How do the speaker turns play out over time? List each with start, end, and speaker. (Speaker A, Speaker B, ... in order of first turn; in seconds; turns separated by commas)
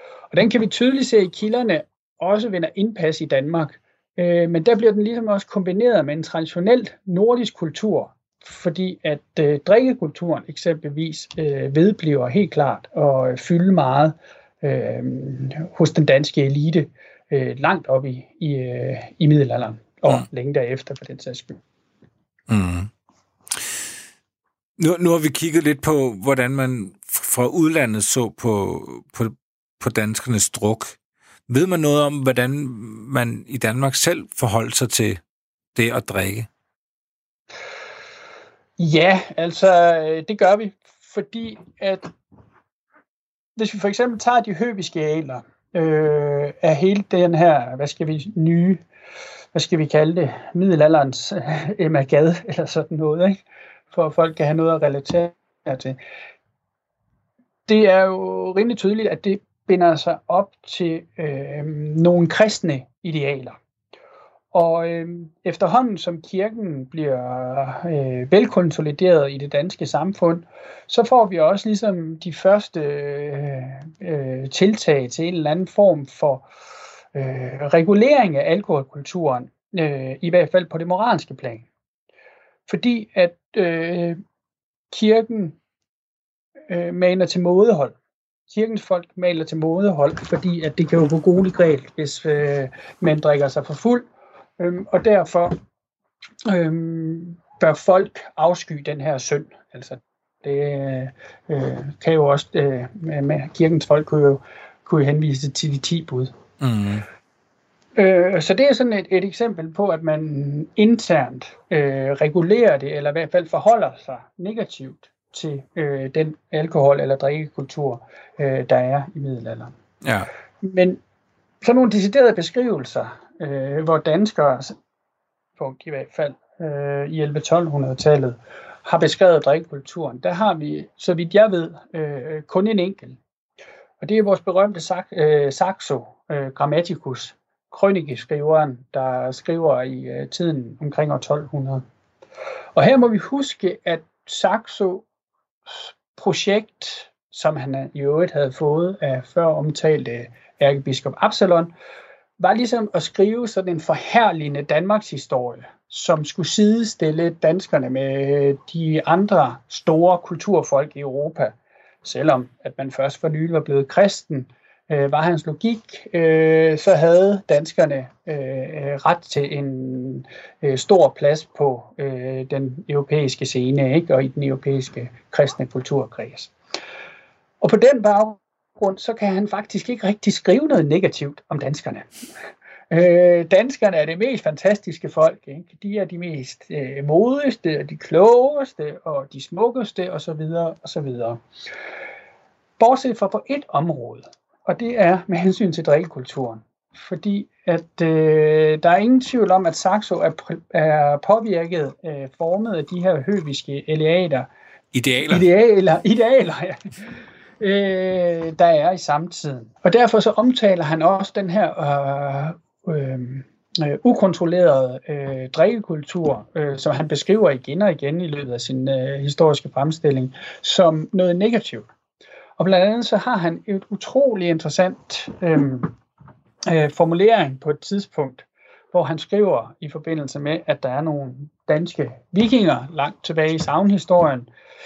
Speaker A: 0.3-21.6, Speaker B: 22.5-22.9, Speaker B: 23.5-23.8, Speaker B: 24.8-31.0, Speaker B: 31.5-35.2, Speaker B: 35.7-36.5, Speaker A: 38.8-42.1, Speaker A: 43.5-48.8, Speaker A: 49.5-53.4, Speaker A: 53.9-56.0, Speaker A: 57.7-63.6, Speaker A: 64.5-76.5, Speaker A: 77.1-81.7, Speaker A: 82.7-84.2, Speaker A: 84.9-85.6, Speaker A: 86.7-87.9, Speaker A: 88.5-94.0, Speaker A: 94.6-95.6, Speaker A: 96.4-106.3, Speaker B: 106.6-107.0, Speaker A: 108.0-119.7, Speaker B: 120.0-120.3, Speaker A: 120.6-121.0, Speaker A: 121.6-124.8, Speaker A: 125.6-133.2, Speaker A: 134.0-141.8, Speaker A: 142.7-145.0, Speaker A: 145.7-151.7, Speaker A: 152.4-176.5, Speaker A: 177.6-182.1, Speaker A: 182.9-191.4, Speaker A: 192.8-204.5, Speaker B: 204.9-205.4, Speaker A: 205.3-206.8, Speaker A: 207.6-221.9, Speaker A: 222.6-225.9, Speaker A: 226.7-234.5